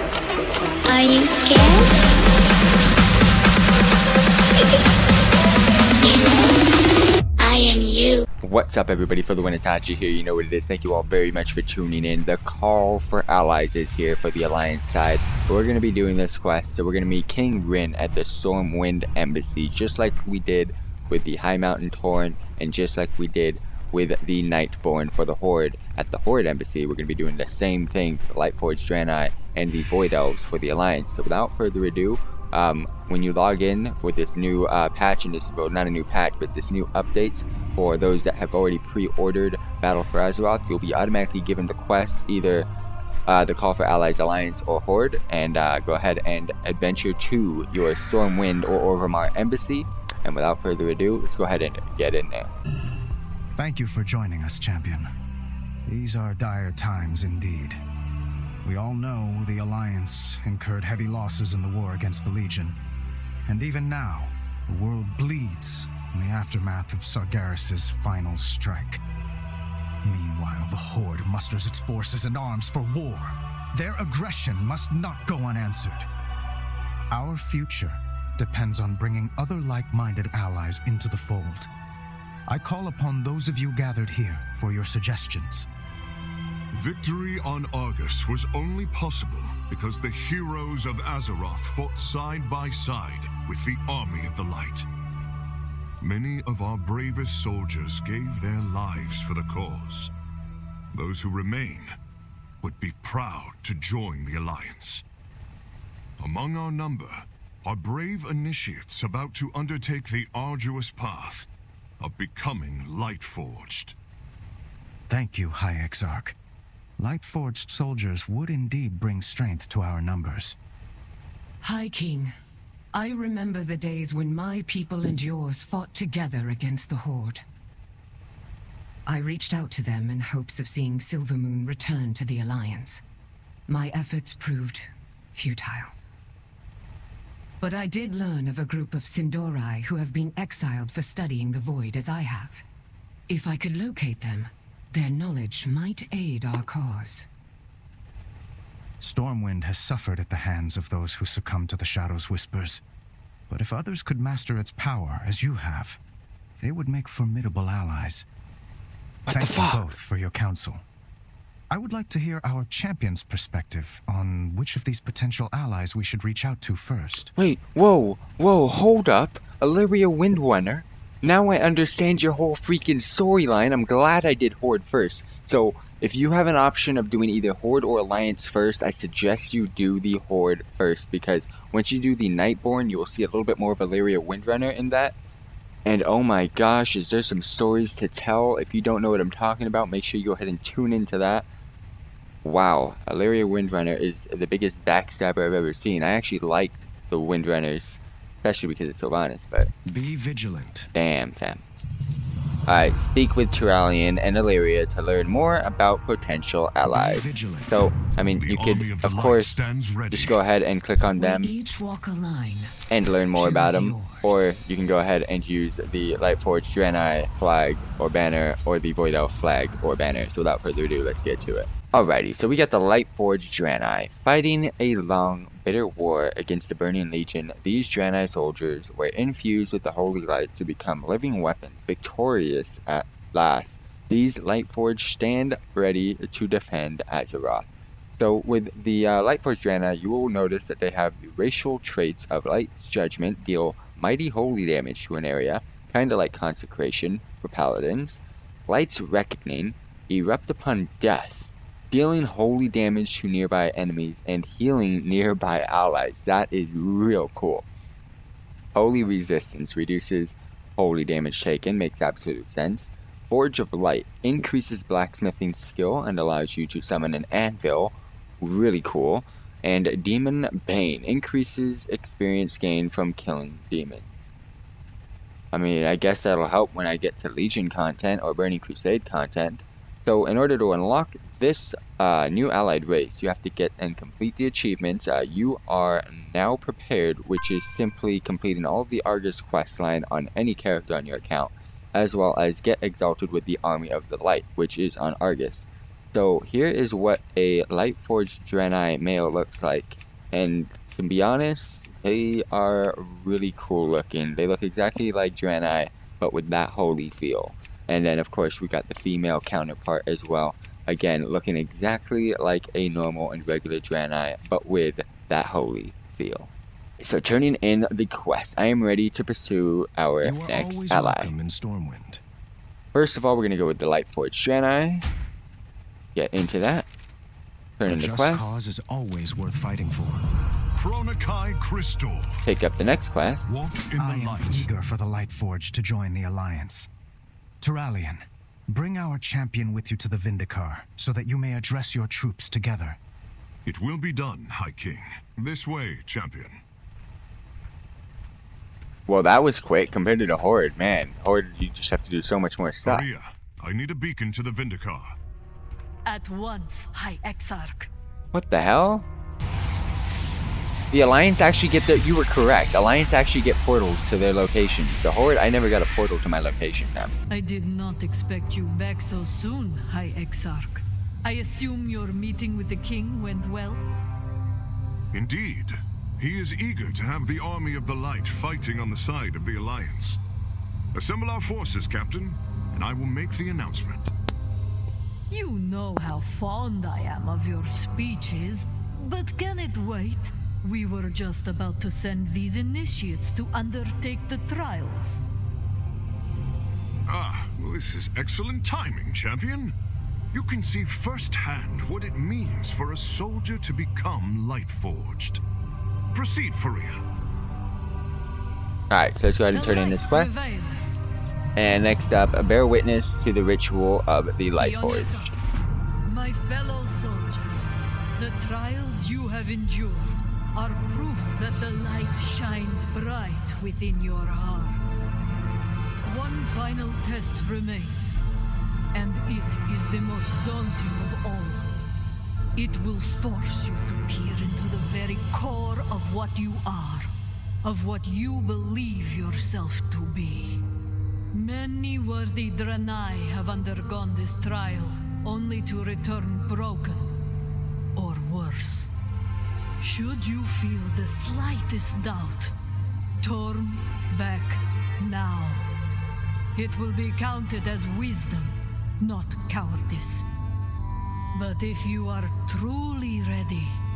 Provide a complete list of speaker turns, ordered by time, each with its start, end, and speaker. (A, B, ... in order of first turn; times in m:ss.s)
0:00.9-0:02.0 A
0:06.0-0:06.6 A
0:07.4-0:08.3 A
0:08.4-0:42.7 B
0:43.3-0:52.5 B
0:53.5-0:55.1 C
0:55.8-0:57.8 C
0:58.6-1:02.8 C
1:03.4-1:09.0 C
1:10.0-1:16.1 C
1:17.1-1:21.7 C
1:22.5-1:25.7 C
1:26.7-1:34.8 D
1:36.0-1:40.1 D
1:40.9-1:41.9 D
1:42.6-1:45.0 D
1:46.2-1:51.5 D
1:52.0-1:54.0 D
1:55.1-1:56.4 C
1:57.0-2:00.6 C
2:01.6-2:02.3 E
2:02.9-2:07.4 E
2:09.0-2:13.0 E
2:13.7-2:15.9 E
2:17.6-2:22.6 E
2:23.3-2:27.3 E
2:29.0-2:32.8 C
2:33.5-2:36.0 C
2:36.6-2:38.3 C
2:39.2-2:40.0 B
2:39.3-2:40.8 C
2:41.7-2:47.3 C
2:47.3-3:05.1 B
3:05.8-3:11.5 B
3:12.4-3:19.7 B
3:19.8-3:20.9 C
3:20.9-3:21.6 B
3:22.7-3:31.5 B
3:26.8-3:27.9 C
3:28.3-3:30.4 D
3:31.2-3:32.8 E
3:32.9-4:17.7 B
3:33.3-3:34.5 E
4:18.7-4:34.2 B
4:35.5-5:21.3 B
5:20.2-5:22.2 C
5:22.9-5:25.1 B
5:26.1-5:26.9 B
5:27.8-5:28.6 B
5:27.8-5:30.3 C
5:30.7-5:32.4 D
5:32.5-5:33.5 B
5:33.4-5:34.7 D
5:34.0-5:36.9 C
5:37.6-5:43.0 C
5:43.6-5:46.6 D
5:49.1-5:53.1 B
5:52.8-5:55.1 D
5:56.0-5:57.9 F
5:58.3-5:59.1 B
6:00.9-6:07.1 B
6:07.3-6:13.8 F
6:15.1-6:20.2 D
6:20.9-6:24.1 D
6:25.3-6:35.2 F
6:37.0-6:39.7 D
6:40.3-6:45.4 D
6:46.1-6:47.0 D
6:48.9-6:50.5 B
6:49.5-6:50.9 F
6:51.6-6:55.3 B
6:54.6-6:55.3 F
6:56.0-7:05.2 F
7:06.0-7:08.2 F
7:08.9-7:11.7 F
7:12.5-7:17.1 F
7:17.6-7:20.6 F
7:21.3-7:27.1 F
7:27.9-7:28.9 F
7:29.8-7:32.5 F
7:33.2-7:35.7 F
7:36.5-7:40.3 F
7:41.3-7:43.8 F